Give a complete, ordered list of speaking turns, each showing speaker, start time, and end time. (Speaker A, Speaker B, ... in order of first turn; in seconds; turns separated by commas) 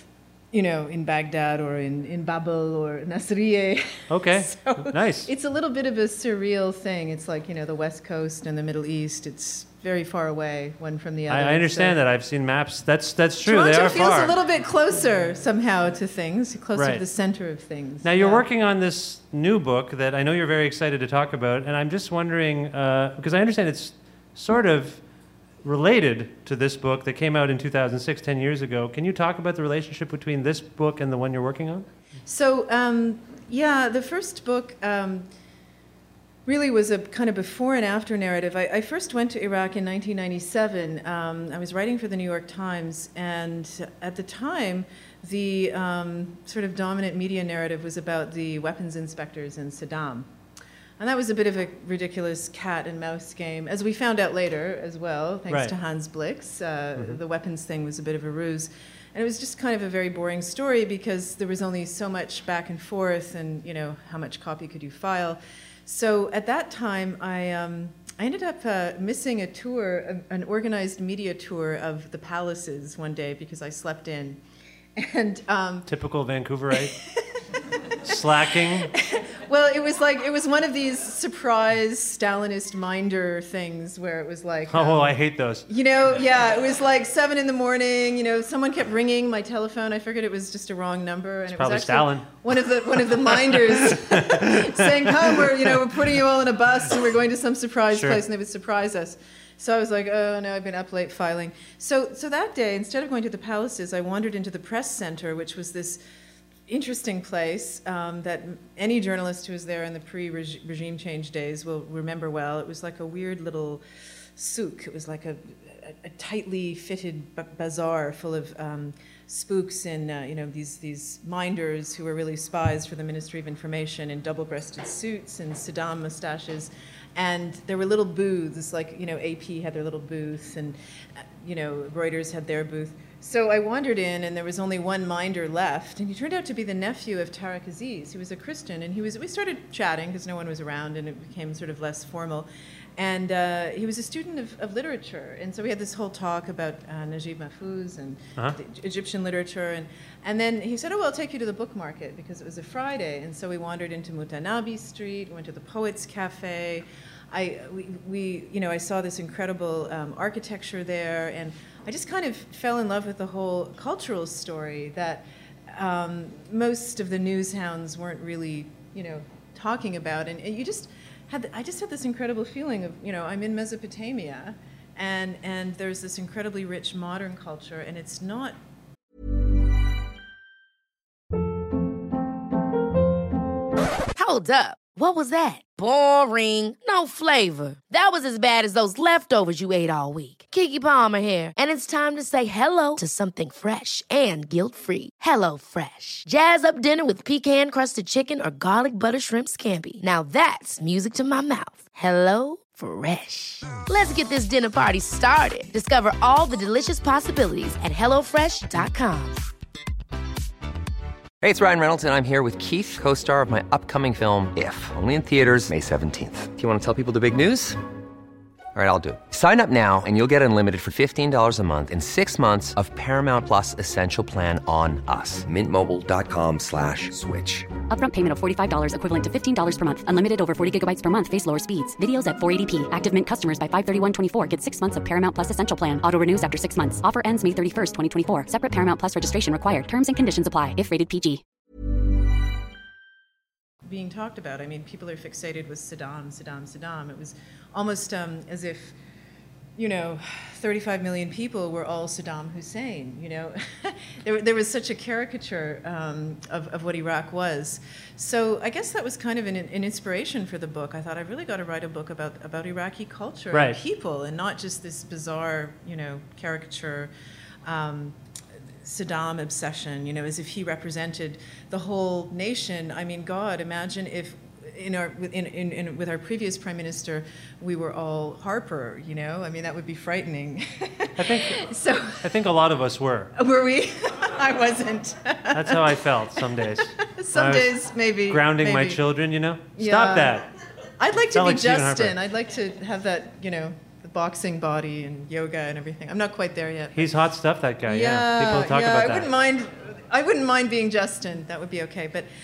Speaker A: 0.5-12.0, Speaker B: 4.1-5.3, Speaker B: 11.3-14.4, Speaker A: 13.4-18.4, Speaker B: 16.7-17.0, Speaker B: 18.0-25.0, Speaker B: 25.6-31.9, Speaker A: 32.2-35.2, Speaker A: 36.5-50.3, Speaker A: 51.0-74.4, Speaker B: 55.5-55.8, Speaker A: 75.0-75.9, Speaker B: 75.9-77.0, Speaker B: 78.0-78.9, Speaker A: 78.9-106.0, Speaker B: 84.7-85.7, Speaker B: 91.5-92.3, Speaker B: 93.3-95.5, Speaker B: 97.9-98.2, Speaker A: 106.7-113.8, Speaker A: 114.4-130.8, Speaker A: 131.4-165.2, Speaker A: 165.7-178.6, Speaker C: 184.2-209.4, Speaker D: 211.4-217.8, Speaker D: 218.7-227.7, Speaker E: 227.9-241.4, Speaker A: 243.8-248.9, Speaker A: 249.8-267.1, Speaker B: 263.5-263.8, Speaker A: 267.6-268.1, Speaker A: 268.8-282.2, Speaker B: 281.2-281.6, Speaker B: 282.2-283.3, Speaker A: 283.4-286.0, Speaker B: 285.5-287.7, Speaker A: 287.0-289.0, Speaker B: 288.3-290.5, Speaker A: 289.8-290.4, Speaker A: 291.0-297.1, Speaker B: 291.3-292.1, Speaker B: 296.9-299.3, Speaker A: 297.9-302.3